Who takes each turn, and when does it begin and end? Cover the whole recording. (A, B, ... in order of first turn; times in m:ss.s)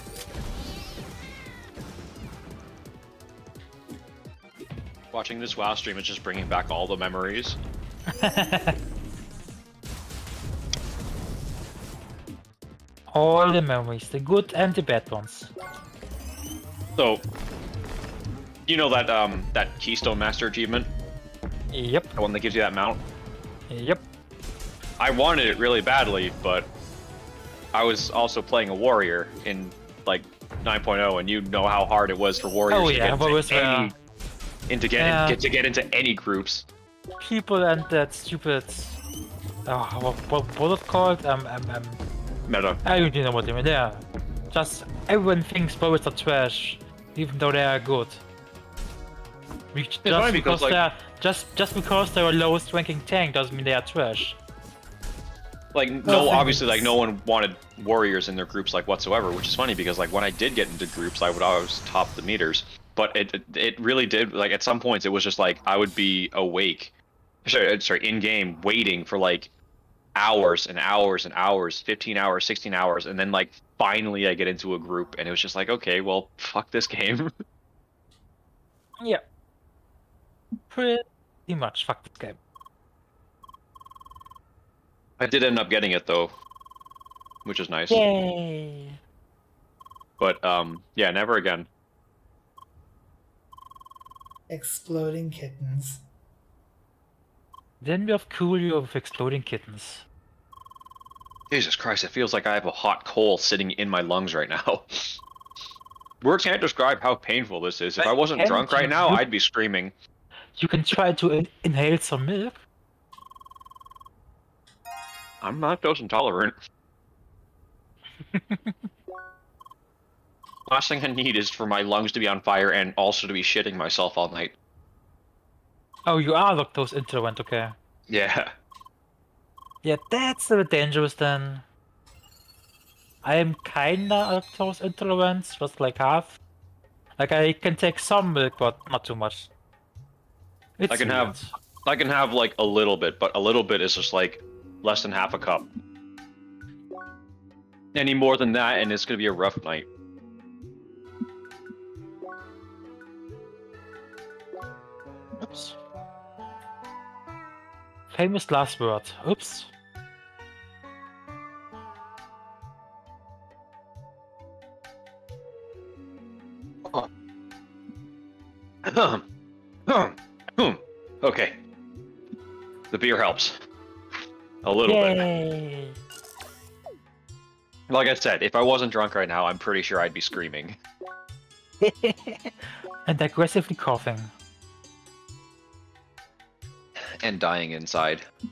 0:05.1-0:07.6 A
0:08.2-0:08.8 B
0:13.1-0:15.5 B
0:17.0-0:17.3 A
0:18.7-0:20.9 A
0:21.7-0:22.1 B
0:22.2-0:23.0 A
0:23.7-0:24.0 B
0:25.0-0:26.7 A
0:27.7-0:33.9 A
0:32.7-0:33.9 B
0:34.7-0:36.7 A
0:35.0-0:35.4 B
0:37.2-0:39.0 B
0:39.7-0:42.0 B
0:42.5-0:42.8 A
0:42.8-0:48.2 B
0:49.7-0:54.4 B
0:50.0-0:50.8 A
0:55.7-1:06.9 A
0:56.0-0:56.9 C
1:07.4-1:09.5 A
1:10.2-1:17.3 A
1:20.7-1:22.4 B
1:25.2-1:26.3 A
1:27.4-1:28.0 A
1:27.9-1:29.0 B
1:30.2-1:31.7 A
1:34.5-1:36.0 C
1:37.8-1:40.0 B
1:41.5-1:45.2 A
1:46.2-1:49.9 A
1:48.0-1:49.2 B
1:50.6-1:52.6 B
1:55.4-1:56.6 A
1:58.2-1:58.9 B
2:00.7-2:04.6 A
2:06.1-2:07.8 B
2:08.1-2:08.5 A
2:09.8-2:11.6 B
2:13.2-2:16.4 B
2:17.2-2:19.5 B
2:20.8-2:21.5 B
2:20.9-2:25.7 A
2:27.9-2:29.9 A
2:35.4-2:35.8 B
2:38.1-2:39.7 B
2:48.9-2:49.2 A
2:49.9-2:51.6 A
2:52.9-2:53.6 A
2:54.6-2:55.2 A
2:54.9-2:56.0 B
2:57.9-3:00.8 A
3:01.8-3:04.3 B
3:07.0-3:08.2 A